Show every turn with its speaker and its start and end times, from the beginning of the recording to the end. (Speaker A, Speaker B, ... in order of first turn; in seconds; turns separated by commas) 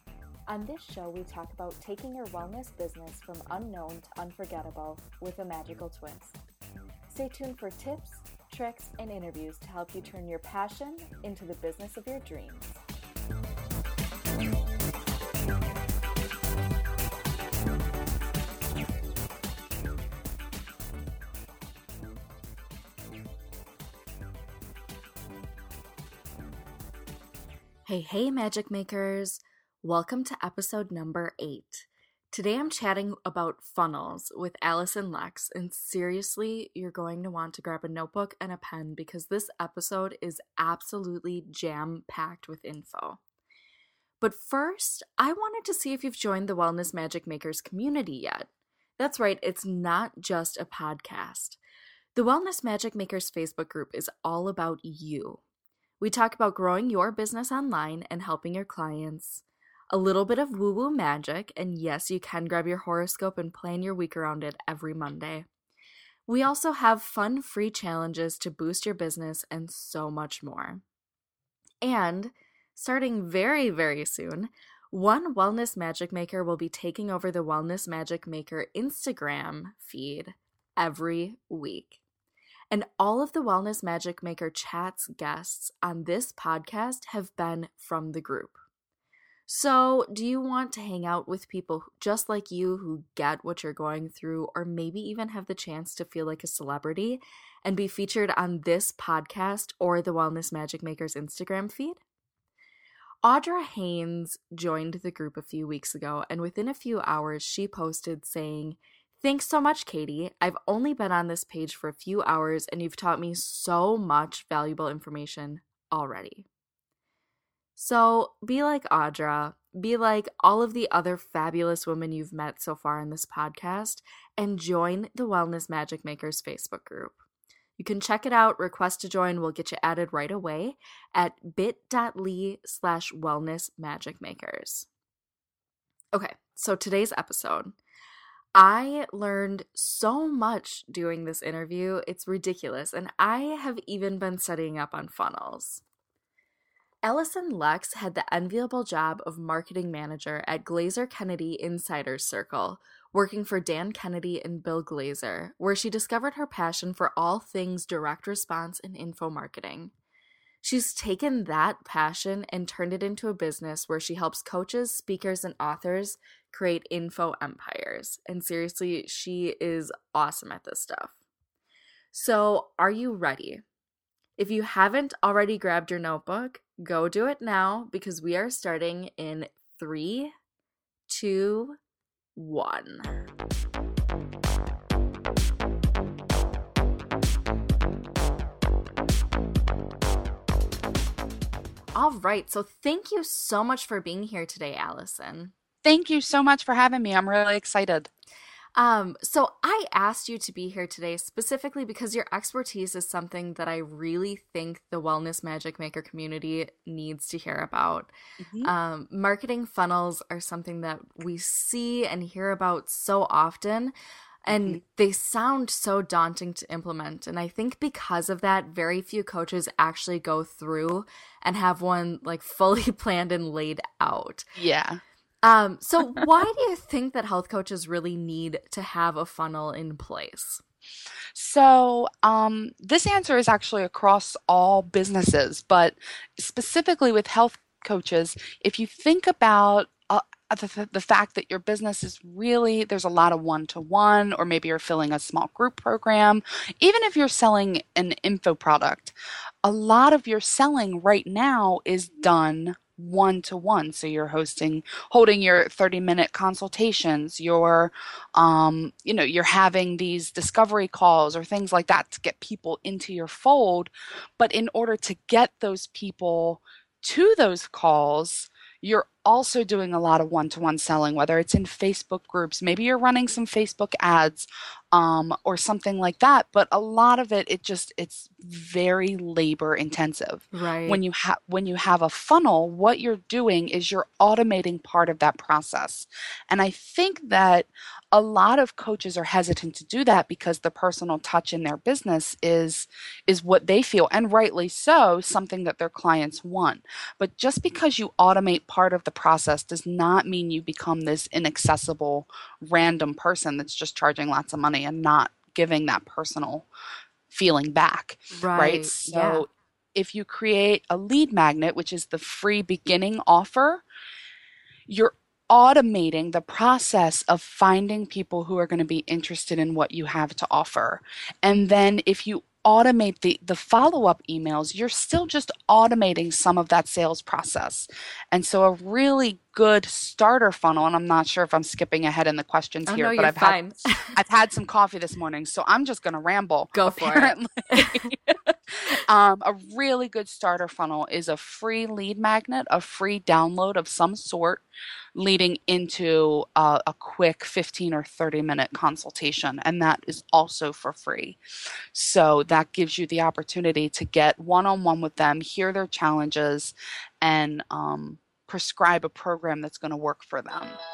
Speaker A: 0.5-6.4, Speaker A: 7.1-12.8, Speaker A: 27.9-43.2, Speaker A: 44.2-51.6, Speaker A: 52.1-55.4, Speaker A: 56.0-65.5, Speaker A: 66.3-70.8, Speaker A: 71.8-82.0, Speaker A: 82.7-88.6, Speaker A: 89.5-102.0, Speaker A: 103.2-116.5, Speaker A: 117.8-127.2, Speaker A: 127.8-134.9, Speaker A: 136.1-137.8, Speaker A: 138.6-145.8, Speaker A: 147.0-159.9, Speaker A: 160.6-171.2, Speaker A: 172.1-173.7, Speaker A: 174.4-180.3, Speaker A: 181.1-181.8, Speaker A: 182.3-183.1, Speaker A: 191.9-195.5, Speaker B: 195.8-198.1, Speaker A: 198.8-208.1, Speaker B: 208.5-208.7, Speaker A: 208.6-213.9, Speaker B: 214.5-214.8, Speaker A: 214.5-224.5, Speaker B: 224.6-225.0, Speaker A: 225.4-230.6, Speaker B: 231.3-306.7, Speaker A: 280.5-281.0, Speaker B: 307.3-313.8, Speaker A: 308.3-309.4, Speaker B: 314.9-333.6, Speaker A: 332.9-334.2, Speaker B: 334.1-344.6, Speaker A: 336.7-338.1, Speaker B: 345.1-351.4, Speaker B: 351.9-360.8